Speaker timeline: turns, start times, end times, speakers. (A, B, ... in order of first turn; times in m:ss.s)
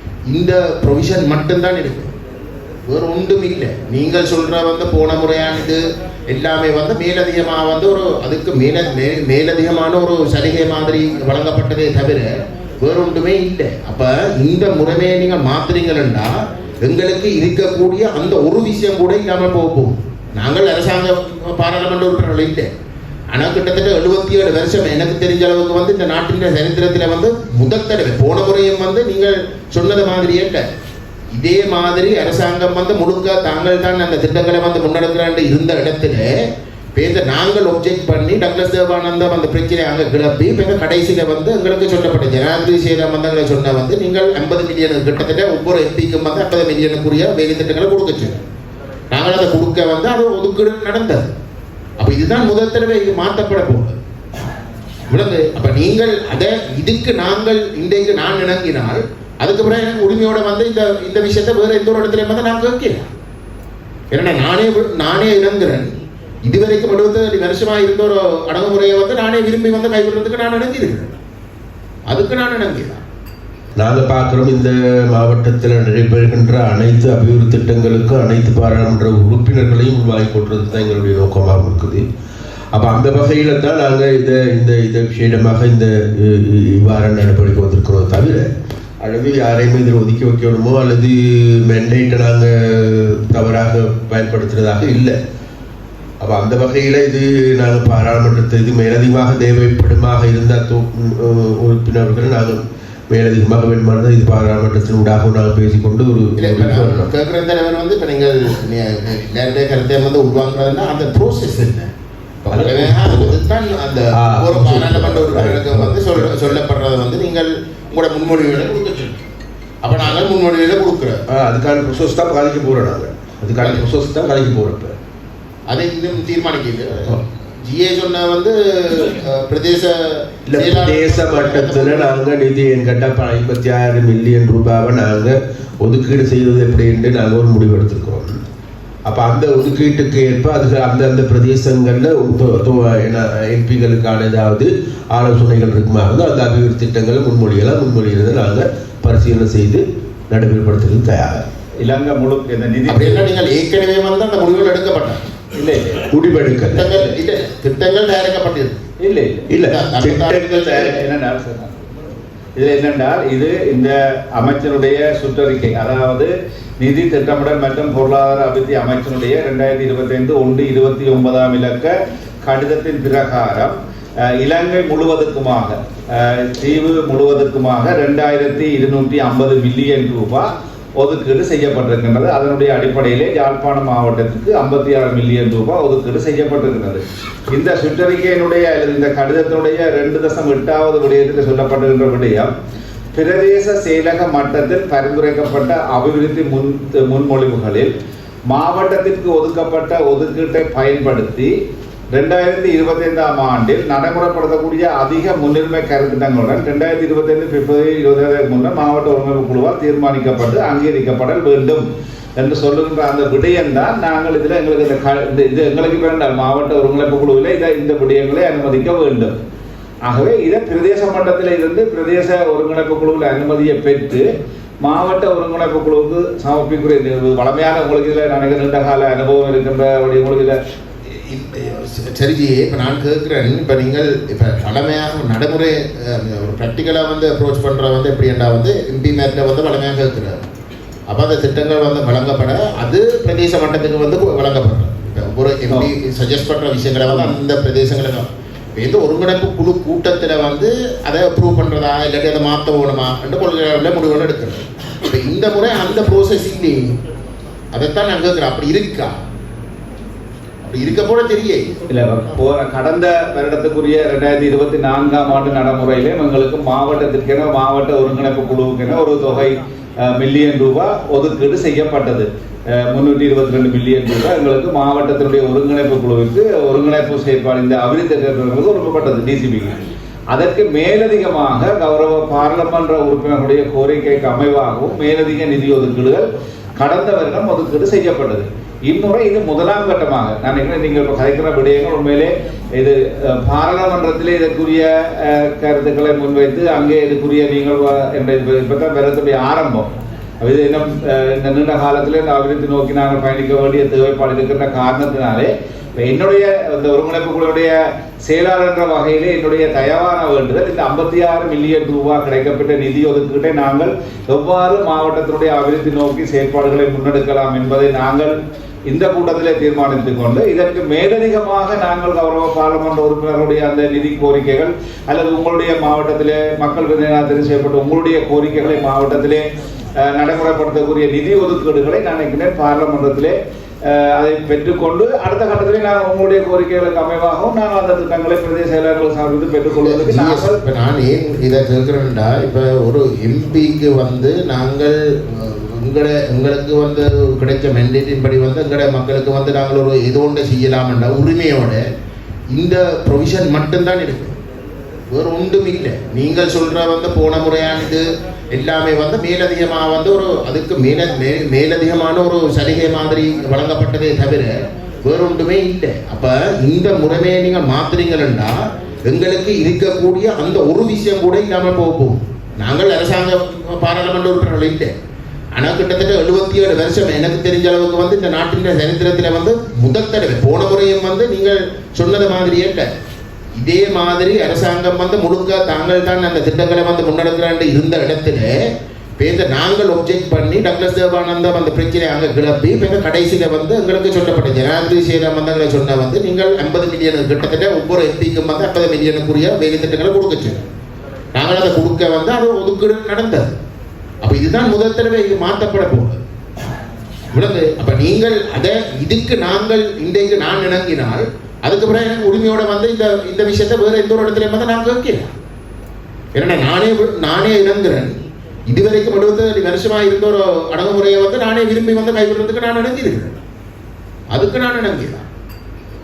0:00.3-0:02.1 A
0:02.9-0:12.3 A
0:12.8-0:16.3 A
0:16.8-0:22.7 A
0:23.3-0:30.6 A
0:31.3-0:36.3 A
0:37.0-0:48.3 A
0:49.1-0:51.2 A
0:52.0-0:54.0 A
0:55.1-1:03.1 A
1:04.1-1:05.9 A
1:06.4-1:11.2 A
1:12.1-1:13.0 A
1:13.8-1:22.0 B
1:22.8-1:28.5 B
1:29.0-1:35.2 B
1:36.2-1:42.6 B
1:43.1-1:47.1 B
1:46.4-1:51.9 A
1:52.4-1:59.2 A
1:52.5-1:53.4 B
1:54.2-1:56.6 B
1:59.8-2:01.2 A
2:01.3-2:05.0 B
2:03.6-2:03.9 A
2:05.7-2:12.2 A
2:10.5-2:18.4 B
2:19.1-2:31.5 B
2:31.8-2:33.3 C
2:32.9-2:35.2 A
2:35.6-2:36.0 C
2:36.1-2:37.0 B
2:36.7-2:38.8 A
2:39.0-2:39.5 C
2:39.5-2:40.9 B
2:39.6-2:40.9 A
2:40.7-2:41.7 C
2:42.6-2:51.9 C
2:52.4-2:53.8 C
2:54.3-3:00.5 C
3:01.0-3:12.5 C
3:13.1-3:17.9 C
3:18.5-3:21.5 C
3:22.1-3:31.9 C
3:32.4-3:39.3 C
3:40.1-3:44.2 C
3:44.8-3:50.6 C
3:51.1-4:00.4 A
4:01.1-4:16.8 A
4:17.7-4:19.1 A
4:20.6-4:21.7 A
4:21.9-4:39.8 C
4:40.3-4:46.2 C
4:46.8-4:59.9 C
5:00.4-5:07.7 C
5:08.2-5:18.3 C
5:18.9-5:29.4 C
5:30.0-5:33.4 C
5:33.9-5:40.6 C
5:39.8-5:51.8 A
5:52.5-5:54.3 A
5:55.1-6:08.6 A
6:09.1-6:14.9 A
6:15.6-6:22.9 A
6:23.6-6:28.5 A
6:29.2-6:40.6 A
6:41.3-6:43.5 A
6:44.2-6:46.2 A
6:47.3-6:55.3 A
6:56.4-6:58.1 A
6:58.7-7:03.4 A
7:04.3-7:05.3 A